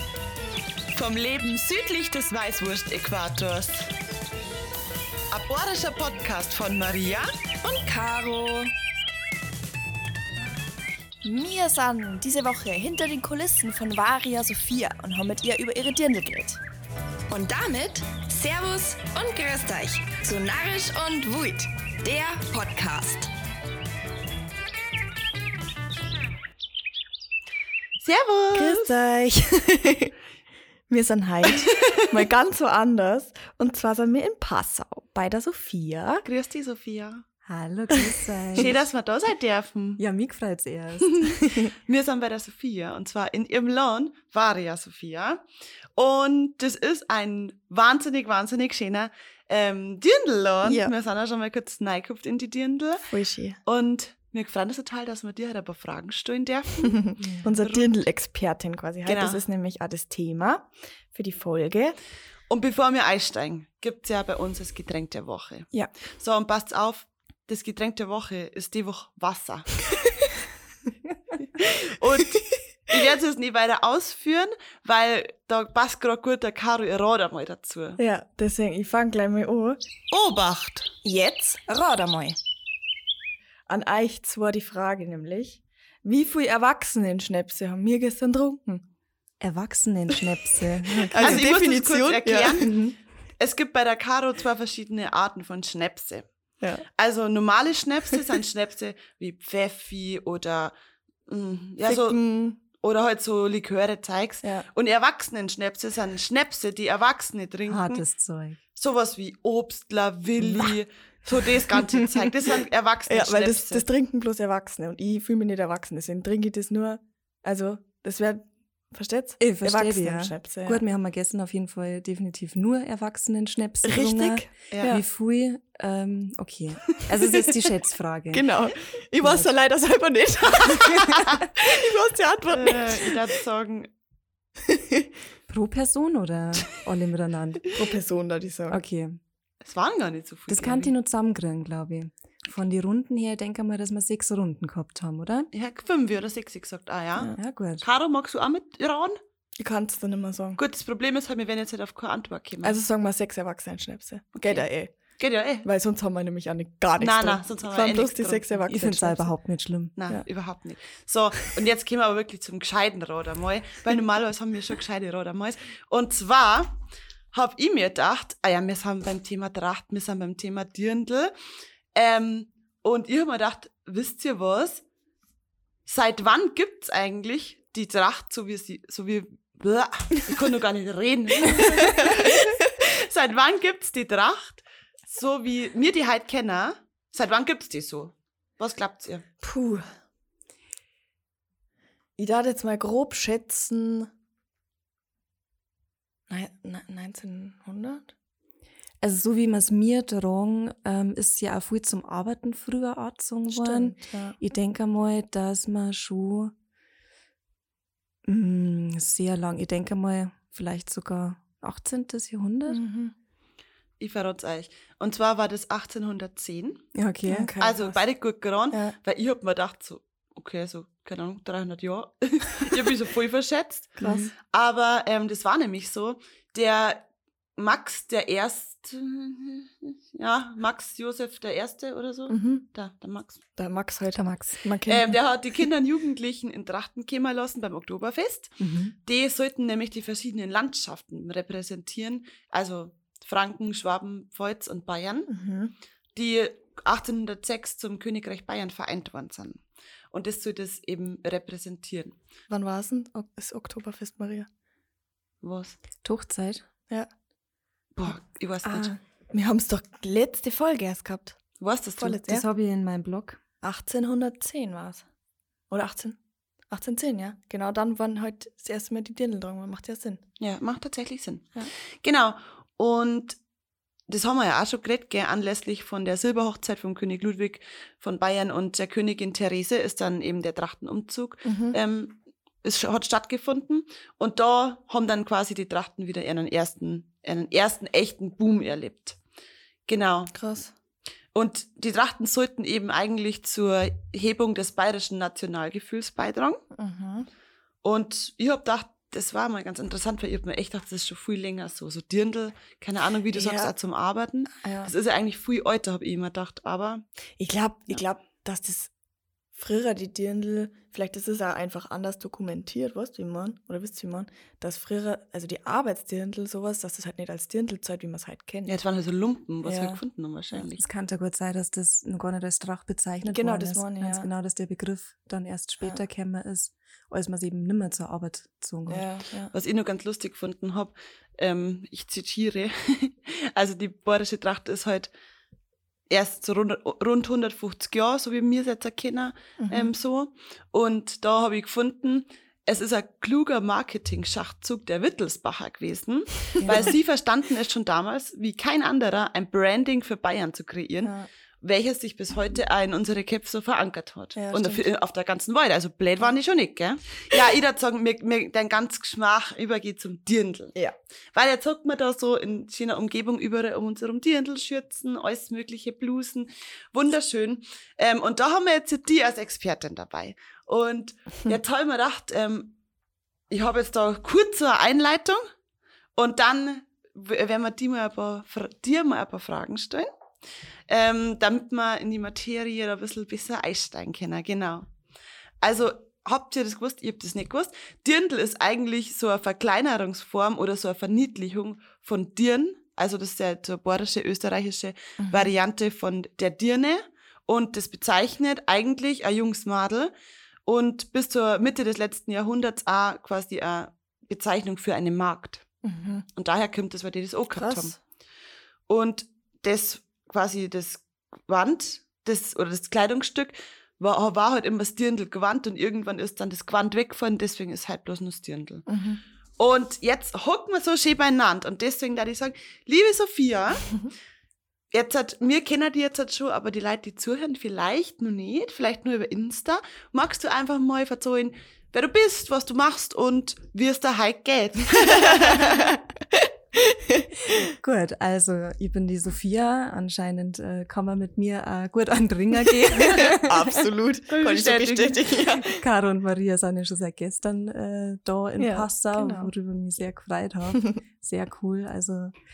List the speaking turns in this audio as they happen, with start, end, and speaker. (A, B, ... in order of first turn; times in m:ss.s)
0:00.9-0:03.9 A
0:05.3-0:07.3 A
0:07.6-0:08.7 B
0:11.2-0:16.6 C
0:17.3-0:23.3 B
0:28.0-0:28.9 A
0:28.5-0:30.1 C
0:30.9-0:36.2 C
0:36.2-0:37.2 A
0:37.4-0:38.7 D
0:38.6-0:40.0 A
0:40.0-0:41.2 D
0:41.0-0:45.4 A
0:46.0-0:53.1 A
0:50.6-0:50.9 C
0:53.1-0:53.6 C
0:53.6-0:57.0 A
0:56.9-1:02.0 C
0:57.6-0:57.9 A
0:59.0-0:59.4 A
1:02.5-1:09.8 A
1:11.6-1:18.0 A
1:18.0-1:19.8 C
1:20.1-1:20.9 A
1:21.0-1:21.6 C
1:21.6-1:22.4 B
1:23.7-1:28.8 C
1:29.4-1:31.4 D
1:31.1-1:32.7 C
1:31.2-1:36.3 A
1:32.6-1:33.0 D
1:37.0-1:40.7 A
1:41.3-1:48.0 A
1:41.8-1:42.6 C
1:47.7-1:48.6 D
1:48.8-1:53.8 A
1:50.4-1:50.7 C
1:53.1-2:00.8 C
1:59.4-2:08.5 D
2:03.8-2:05.0 C
2:04.7-2:05.0 A
2:08.3-2:13.1 C
2:09.2-2:09.5 D
2:12.5-2:13.9 A
2:14.7-2:15.1 C
2:15.5-2:17.7 D
2:17.7-2:18.8 C
2:18.7-2:19.2 D
2:19.6-2:20.9 A
2:20.5-2:25.5 D
2:25.5-2:29.2 A
2:27.3-2:27.8 D
2:29.6-2:30.6 C
2:30.6-2:32.8 A
2:32.6-2:34.9 C
2:34.3-2:34.7 A
2:35.2-2:35.6 A
2:35.6-2:39.3 C
2:37.0-2:38.5 A
2:38.6-2:40.0 D
2:40.0-2:46.8 A
2:47.3-2:51.3 A
2:51.9-2:54.8 A
2:55.8-3:09.2 A
3:09.4-3:09.8 C
3:12.2-3:14.1 C
3:16.3-3:18.1 C
3:19.0-3:26.5 D
3:23.5-3:24.4 C
3:28.2-3:32.8 D
3:32.7-3:33.1 C
3:34.0-3:36.8 A
3:36.9-3:37.5 D
3:37.3-3:37.9 C
3:37.6-3:47.0 A
3:44.0-3:44.3 C
3:47.6-3:53.4 A
3:52.3-3:52.6 C
3:53.6-3:55.2 C
3:54.1-3:54.6 D
3:54.8-4:05.3 A
3:58.6-3:58.9 D
4:05.3-4:05.7 C
4:06.1-4:12.1 A
4:12.5-4:14.5 C
4:15.4-4:15.8 A
4:16.0-4:16.6 D
4:18.0-4:18.9 A
4:18.7-4:21.4 C
4:21.6-4:22.2 A
4:22.0-4:22.4 C
4:22.3-4:23.4 D
4:23.6-4:25.0 C
4:25.7-4:26.2 C
4:26.7-4:30.2 C
4:30.4-4:33.4 A
4:34.1-4:49.2 A
4:41.4-4:41.8 C
4:49.9-4:50.3 A
4:50.3-4:50.7 C
4:51.3-4:56.6 A
4:56.7-4:57.3 C
4:57.8-5:07.0 A
5:03.3-5:03.7 C
5:04.6-5:04.9 C
5:07.4-5:08.9 C
5:09.6-5:18.7 C
5:18.6-5:20.8 A
5:19.6-5:20.0 C
5:20.8-5:29.1 D
5:23.3-5:24.3 C
5:28.9-5:29.5 C
5:29.5-5:35.1 A
5:36.1-6:00.7 A
5:39.6-5:39.9 C
5:46.6-5:46.9 C
5:46.6-5:46.9 D
5:51.0-5:51.3 C
5:54.4-5:54.8 C
6:01.3-6:12.8 A
6:13.5-6:15.4 A
6:16.2-6:20.1 A
6:20.9-6:24.9 A
6:25.6-6:40.1 A
6:35.2-6:35.5 C
6:40.6-6:45.6 A
6:45.8-6:46.2 C
6:46.3-6:48.0 A
6:47.6-6:47.9 C
6:48.9-6:58.8 A
6:58.9-6:59.2 C
6:59.6-7:03.9 A
7:04.9-7:15.6 A
7:15.2-7:16.0 C
7:16.8-7:17.5 C
7:17.8-7:23.8 D
7:23.0-7:25.8 C
7:24.3-7:25.3 A
7:25.6-7:32.3 D
7:28.6-7:29.5 C